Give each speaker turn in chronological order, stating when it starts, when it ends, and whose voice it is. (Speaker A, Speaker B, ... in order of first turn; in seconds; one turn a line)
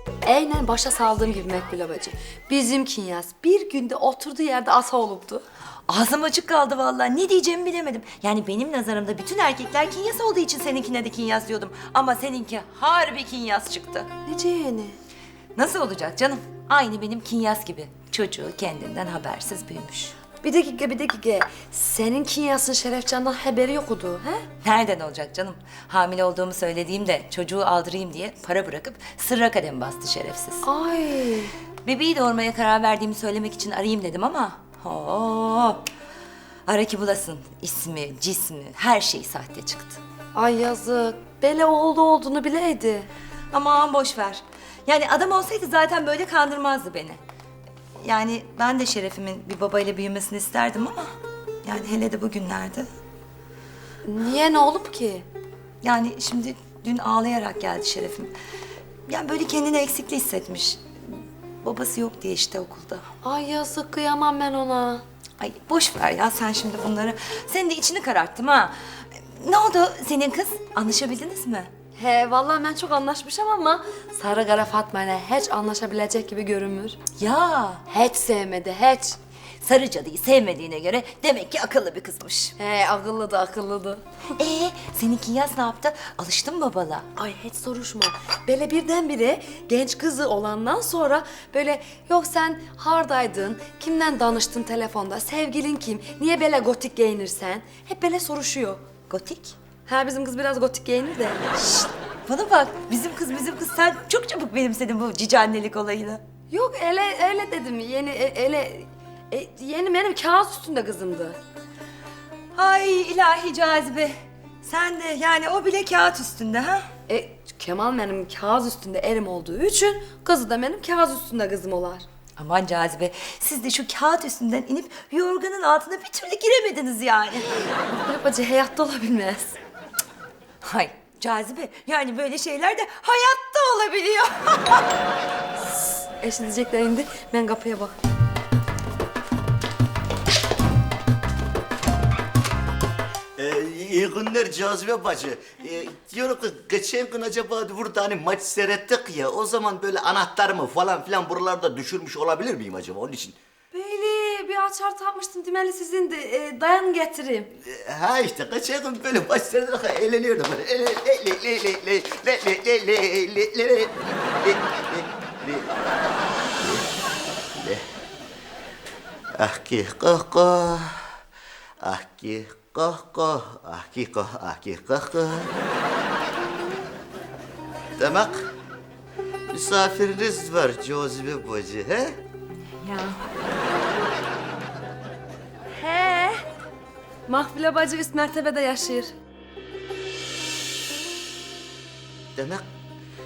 Speaker A: 0.2-5.5
Speaker B: 5.9-14.1
Speaker A: 14.2-15.0
Speaker B: 15.5-20.1
Speaker A: 20.4-24.5
Speaker B: 24.6-30.6
Speaker A: 30.6-31.5
Speaker B: 31.8-35.9
Speaker B: 36.7-40.0
Speaker A: 40.3-43.1
Speaker B: 43.5-47.2
Speaker B: 48.0-52.9
Speaker A: 54.0-55.3
Speaker B: 55.8-58.3
Speaker B: 59.1-60.8
Speaker B: 61.6-63.1
Speaker A: 63.2-65.0
Speaker B: 65.4-71.7
Speaker A: 72.0-77.0
Speaker B: 77.2-77.8
Speaker A: 77.9-79.2
Speaker B: 79.6-82.5
Speaker A: 82.6-84.0
Speaker B: 84.4-87.1
Speaker A: 87.2-98.8
Speaker B: 99.1-99.5
Speaker A: 99.9-101.8
Speaker B: 102.2-106.2
Speaker A: 106.5-111.4
Speaker B: 112.5-116.9
Speaker A: 117.1-122.0
Speaker B: 122.4-127.7
Speaker A: 127.8-129.6
Speaker B: 130.6-134.9
Speaker A: 135.8-137.9
Speaker C: 143.4-153.3
Speaker A: 153.7-157.5
Speaker C: 157.7-165.7
Speaker C: 166.6-166.9
Speaker C: 167.6-167.8
Speaker C: 169.3-171.1
Speaker C: 171.8-175.5
Speaker C: 178.0-178.5
Speaker C: 179.5-182.2
Speaker B: 182.8-183.2
Speaker A: 185.8-186.4
Speaker A: 187.3-189.1
Speaker C: 192.3-192.7